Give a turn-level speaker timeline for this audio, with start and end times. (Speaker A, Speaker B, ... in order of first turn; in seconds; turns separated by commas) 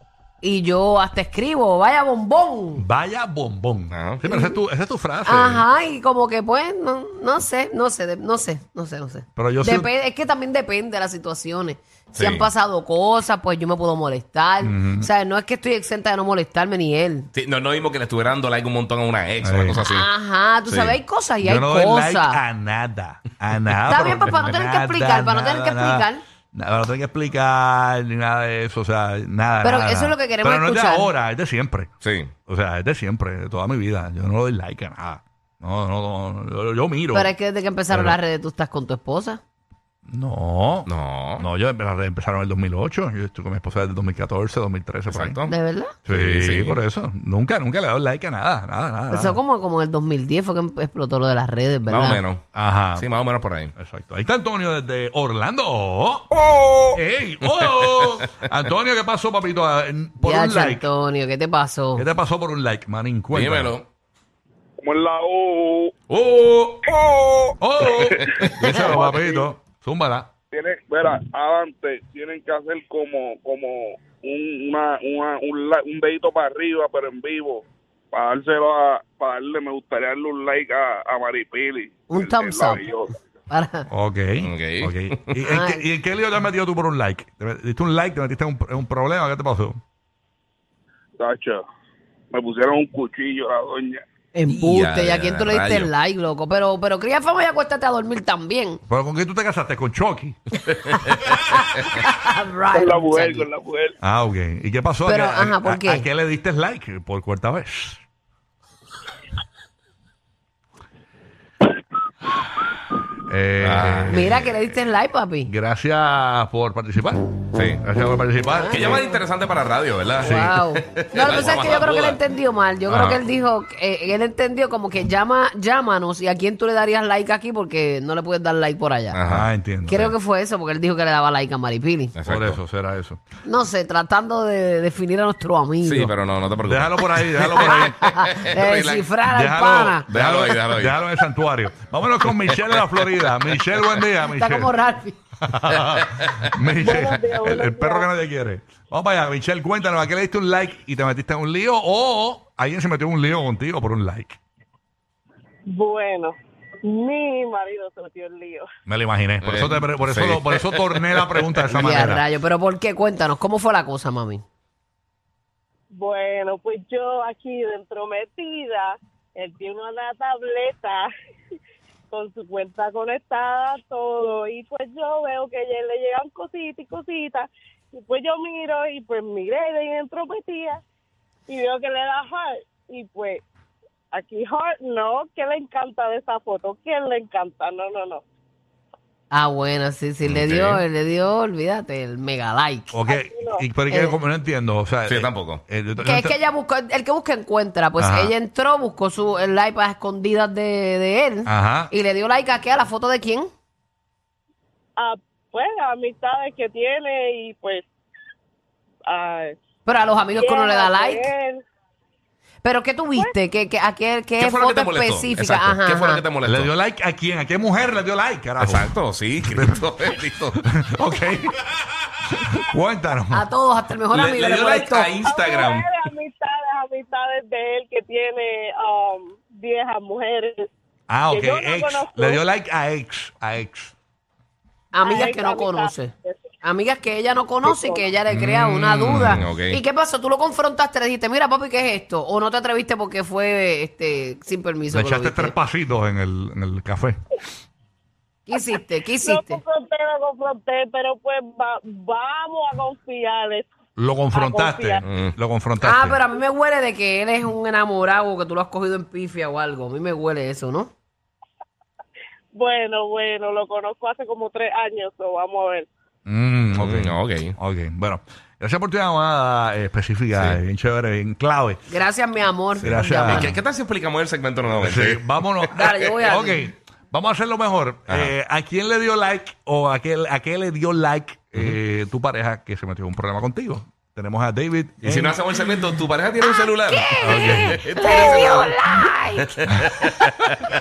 Speaker A: 0.4-2.9, Speaker B: 2.8-5.7, Speaker C: 3.9-4.2, Speaker A: 4.3-4.6, Speaker A: 5.2-17.3, Speaker B: 9.4-9.9, Speaker C: 12.2-12.5, Speaker B: 14.6-15.1, Speaker C: 17.3-20.1, Speaker B: 19.4-19.8, Speaker A: 19.8-22.4, Speaker C: 20.6-21.0, Speaker B: 21.4-31.9, Speaker A: 23.9-26.2, Speaker A: 29.6-31.1, Speaker C: 32.0-32.3, Speaker B: 32.5-37.3, Speaker A: 37.1-39.4, Speaker B: 37.9-38.2, Speaker B: 40.1-45.4, Speaker C: 40.9-41.5, Speaker C: 45.1-45.5, Speaker A: 45.5-46.0, Speaker B: 46.1-49.4, Speaker C: 46.1-46.8, Speaker A: 49.1-52.2, Speaker C: 51.9-52.4, Speaker B: 52.5-53.1, Speaker C: 53.0-53.7, Speaker B: 53.8-56.3, Speaker D: 56.4-57.0, Speaker B: 56.9-60.9, Speaker C: 57.5-58.3, Speaker A: 60.2-62.1, Speaker B: 62.0-63.8, Speaker C: 63.3-63.9, Speaker D: 64.8-65.9, Speaker C: 66.1-66.8, Speaker D: 66.9-69.5, Speaker B: 67.6-70.3, Speaker C: 68.0-68.5, Speaker D: 70.5-83.1, Speaker A: 82.1-83.9, Speaker B: 83.9-89.8, Speaker C: 84.4-85.4, Speaker A: 85.4-85.9, Speaker D: 91.2-91.6, Speaker D: 92.3-94.0, Speaker A: 94.3-98.8, Speaker C: 94.5-95.9, Speaker B: 98.9-100.4, Speaker A: 100.8-103.5, Speaker D: 102.7-104.0, Speaker B: 104.0-108.0, Speaker A: 105.0-106.1, Speaker B: 113.3-114.6, Speaker C: 113.6-114.2, Speaker A: 114.1-115.5, Speaker B: 115.5-119.1, Speaker C: 117.5-117.8, Speaker A: 118.5-119.2, Speaker C: 118.7-122.2, Speaker B: 120.2-120.6, Speaker A: 120.2-129.2, Speaker C: 122.9-123.2, Speaker C: 129.1-129.5, Speaker B: 129.3-130.1, Speaker A: 129.8-132.1, Speaker C: 132.2-132.6, Speaker B: 132.2-133.2, Speaker A: 133.4-136.1, Speaker C: 135.8-139.1, Speaker B: 136.6-138.2, Speaker A: 137.4-140.1, Speaker B: 139.2-144.7, Speaker C: 140.1-141.0, Speaker C: 142.4-143.0, Speaker A: 144.3-145.2, Speaker B: 145.5-154.4, Speaker C: 145.8-146.5, Speaker E: 146.8-148.1, Speaker E: 155.7-158.7, Speaker B: 158.9-162.2, Speaker C: 159.4-161.3, Speaker A: 161.7-164.4, Speaker E: 165.9-171.1, Speaker E: 172.1-180.8, Speaker E: 181.5-183.4, Speaker E: 184.1-188.2, Speaker A: 189.3-192.9, Speaker C: 190.2-190.8, Speaker B: 192.9-196.4, Speaker E: 193.1-193.6, Speaker A: 193.9-194.2, Speaker C: 195.1-195.6, Speaker A: 196.0-203.5, Speaker B: 198.0-198.3, Speaker B: 201.5-201.9, Speaker E: 205.0-207.9, Speaker E: 209.1-209.6, Speaker A: 209.9-211.3, Speaker E: 210.3-211.6, Speaker A: 212.6-216.2, Speaker C: 214.4-216.7, Speaker B: 216.4-218.9, Speaker C: 218.6-220.6, Speaker B: 219.4-219.9, Speaker B: 220.6-221.7, Speaker B: 222.3-223.5, Speaker A: 223.3-225.2, Speaker C: 224.1-225.9, Speaker E: 225.2-230.7, Speaker B: 231.1-233.9, Speaker E: 231.3-232.4, Speaker A: 234.9-245.6, Speaker E: 235.0-236.5, Speaker E: 237.7-238.0, Speaker B: 238.3-239.4, Speaker C: 239.3-239.8, Speaker B: 244.9-247.2, Speaker A: 248.5-249.6, Speaker E: 249.2-253.7, Speaker B: 254.0-256.2, Speaker E: 254.3-255.0, Speaker C: 255.1-255.4, Speaker A: 255.8-260.9, Speaker E: 262.5-265.9, Speaker B: 266.3-271.8, Speaker C: 266.7-267.6, Speaker C: 270.3-270.6, Speaker A: 271.9-273.6, Speaker B: 272.8-273.6, Speaker C: 273.3-275.2, Speaker B: 274.7-286.0, Speaker A: 275.7-276.7, Speaker C: 278.1-278.3, Speaker C: 285.0-288.8, Speaker A: 286.4-289.6, Speaker B: 287.2-288.5, Speaker C: 289.9-290.6